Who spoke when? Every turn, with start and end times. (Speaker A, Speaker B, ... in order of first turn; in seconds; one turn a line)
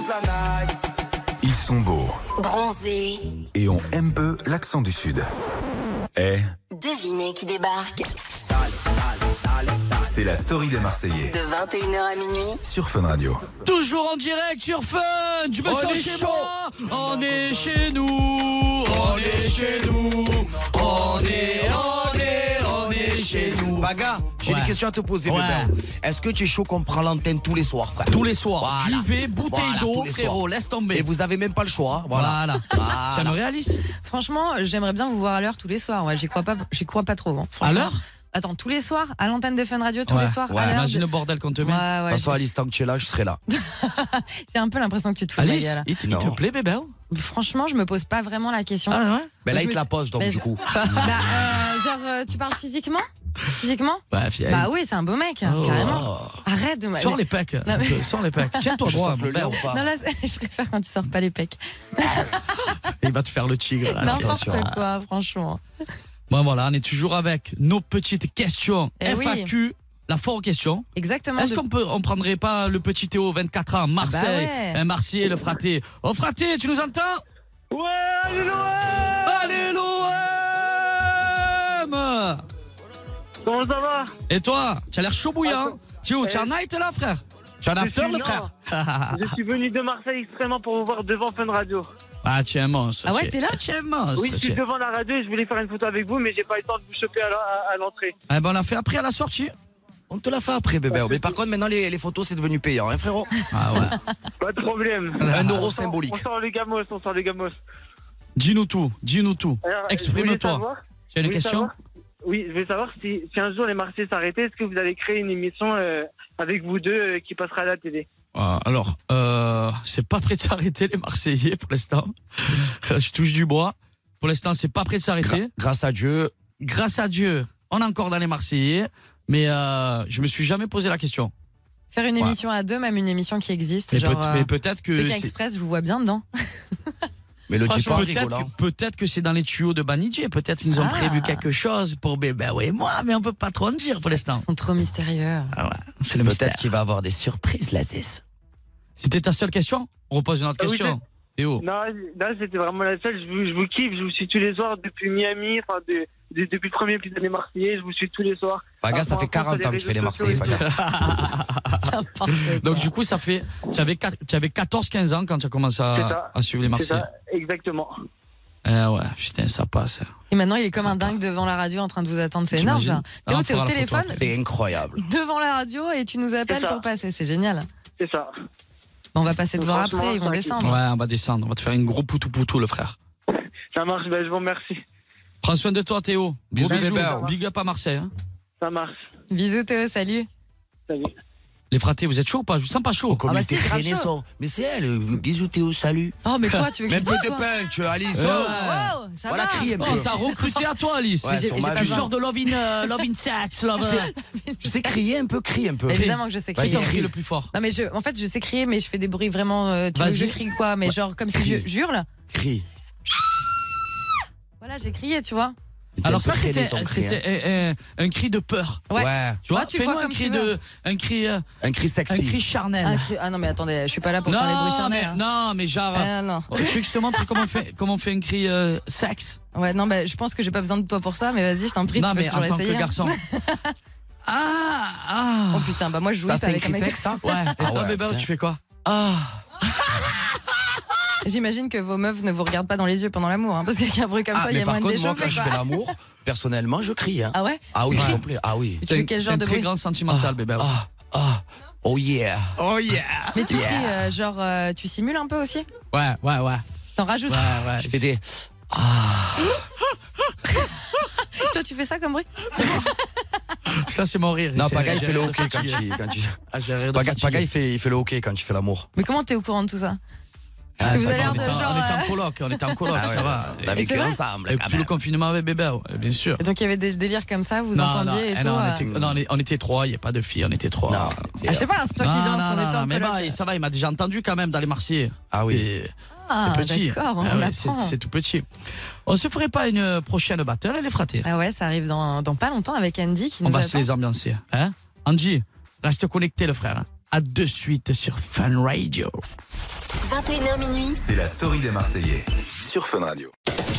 Speaker A: 1.4-2.2
Speaker B: 2.4-3.4
Speaker A: 3.5-5.2
Speaker A: 6.2-6.4
Speaker B: 6.7-8.1
Speaker A: 10.0-11.4
Speaker B: 11.2-12.6
Speaker A: 12.6-13.4
Speaker C: 13.6-23.9
Speaker D: 15.6-16.5
Speaker D: 18.9-19.9
Speaker D: 20.7-22.0
Speaker D: 22.6-33.4
Speaker C: 24.4-25.7
Speaker C: 28.1-31.1
Speaker C: 32.1-33.8
Speaker E: 34.0-41.0
Speaker C: 37.6-38.0
Speaker C: 40.1-41.8
Speaker D: 40.5-40.8
Speaker E: 41.6-42.4
Speaker D: 42.1-43.4
Speaker E: 43.5-45.9
Speaker C: 45.4-46.9
Speaker D: 46.0-46.4
Speaker E: 47.1-53.0
Speaker C: 48.9-49.3
Speaker D: 49.4-50.6
Speaker C: 50.7-51.2
Speaker E: 53.5-58.8
Speaker C: 54.1-54.7
Speaker C: 55.4-56.1
Speaker D: 55.8-56.4
Speaker C: 57.0-59.6
Speaker D: 58.8-59.9
Speaker E: 59.5-62.8
Speaker C: 62.8-64.8
Speaker E: 63.9-65.6
Speaker D: 64.1-64.7
Speaker C: 66.3-77.2
Speaker E: 69.0-69.5
Speaker E: 70.9-71.6
Speaker E: 74.0-74.8
Speaker F: 77.7-79.6
Speaker C: 79.2-82.4
Speaker F: 83.4-84.1
Speaker C: 84.3-87.2
Speaker F: 85.4-86.5
Speaker D: 87.6-88.5
Speaker F: 87.8-88.5
Speaker C: 88.7-89.3
Speaker F: 89.1-91.9
Speaker C: 92.2-94.6
Speaker E: 93.0-93.6
Speaker F: 94.2-98.1
Speaker C: 98.3-99.5
Speaker D: 100.1-103.3
Speaker F: 100.9-101.3
Speaker C: 103.5-104.0
Speaker F: 104.4-107.6
Speaker C: 105.2-105.7
Speaker D: 105.3-106.2
Speaker C: 108.3-111.7
Speaker F: 109.6-111.7
Speaker F: 112.2-118.1
Speaker C: 118.3-125.5
Speaker D: 125.2-126.3
Speaker C: 126.6-131.3
Speaker E: 131.9-136.9
Speaker C: 133.9-135.3
Speaker D: 137.5-138.5
Speaker C: 137.7-144.4
Speaker E: 137.7-138.1
Speaker E: 140.7-141.4
Speaker E: 144.2-145.5
Speaker C: 145.5-146.7
Speaker D: 146.2-148.2
Speaker C: 149.0-151.6
Speaker F: 150.6-151.0
Speaker F: 151.6-160.7
Speaker D: 158.8-160.6
Speaker C: 160.3-167.1
Speaker E: 161.8-162.9
Speaker F: 165.9-167.9
Speaker C: 168.6-170.1
Speaker E: 170.3-174.2
Speaker C: 170.8-171.1
Speaker C: 172.5-174.3
Speaker D: 174.1-175.0
Speaker E: 174.9-177.6
Speaker F: 176.5-176.8
Speaker F: 178.0-178.3
Speaker E: 179.1-180.8
Speaker F: 179.6-180.5
Speaker C: 180.6-182.9
Speaker F: 183.3-184.8
Speaker C: 185.4-188.1
Speaker D: 186.5-187.3
Speaker F: 186.6-187.3
Speaker F: 188.6-189.0
Speaker E: 189.3-190.3
Speaker F: 190.9-191.1
Speaker C: 191.7-193.2
Speaker D: 193.1-196.1
Speaker E: 193.3-194.1
Speaker E: 196.2-197.5
Speaker D: 196.9-198.6
Speaker C: 198.1-199.0
Speaker E: 198.2-200.7
Speaker D: 199.3-200.1
Speaker C: 199.8-204.1
Speaker D: 201.2-202.1
Speaker E: 201.2-203.0
Speaker E: 203.8-205.0
Speaker D: 204.6-206.0
Speaker E: 205.9-212.1
Speaker C: 205.9-207.5
Speaker D: 206.5-207.1
Speaker C: 209.9-210.4
Speaker D: 210.8-211.6
Speaker D: 212.3-212.6
Speaker E: 214.6-215.5
Speaker D: 216.0-217.2
Speaker C: 216.0-218.9
Speaker E: 218.9-220.5
Speaker D: 218.9-219.4
Speaker C: 219.4-221.4
Speaker D: 221.6-222.4
Speaker C: 222.1-223.1
Speaker E: 222.8-225.2
Speaker C: 224.2-229.4
Speaker E: 225.9-227.5
Speaker E: 229.5-233.7
Speaker C: 231.9-233.2
Speaker C: 234.2-235.8
Speaker E: 235.5-237.8
Speaker D: 236.2-238.3
Speaker C: 237.2-238.6
Speaker D: 238.8-239.4
Speaker E: 241.2-245.7
Speaker D: 244.3-248.8
Speaker E: 247.3-248.2
Speaker C: 247.9-248.2
Speaker E: 248.8-249.7
Speaker C: 248.8-250.7
Speaker D: 250.1-252.5
Speaker C: 252.6-253.7
Speaker E: 253.3-255.7
Speaker D: 253.5-254.0
Speaker C: 255.9-256.6
Speaker E: 256.9-257.8
Speaker C: 257.3-258.0
Speaker D: 257.8-259.6
Speaker E: 260.6-263.1
Speaker C: 263.6-265.9
Speaker D: 264.5-266.4
Speaker C: 266.5-267.5
Speaker D: 266.9-268.9
Speaker E: 268.9-270.0
Speaker D: 270.8-271.7
Speaker C: 270.8-276.4
Speaker E: 270.8-272.2
Speaker E: 272.7-273.2
Speaker D: 272.9-274.9
Speaker E: 273.7-274.2
Speaker E: 276.4-278.8
Speaker C: 277.7-281.4
Speaker D: 278.8-279.2
Speaker D: 280.9-281.7
Speaker E: 281.4-283.4
Speaker C: 282.0-285.9
Speaker D: 285.3-285.7
Speaker E: 286.2-287.9
Speaker C: 286.4-288.4
Speaker C: 289.1-291.3
Speaker E: 291.2-293.9
Speaker C: 293.4-299.2
Speaker B: 300.1-301.0
Speaker A: 301.0-303.3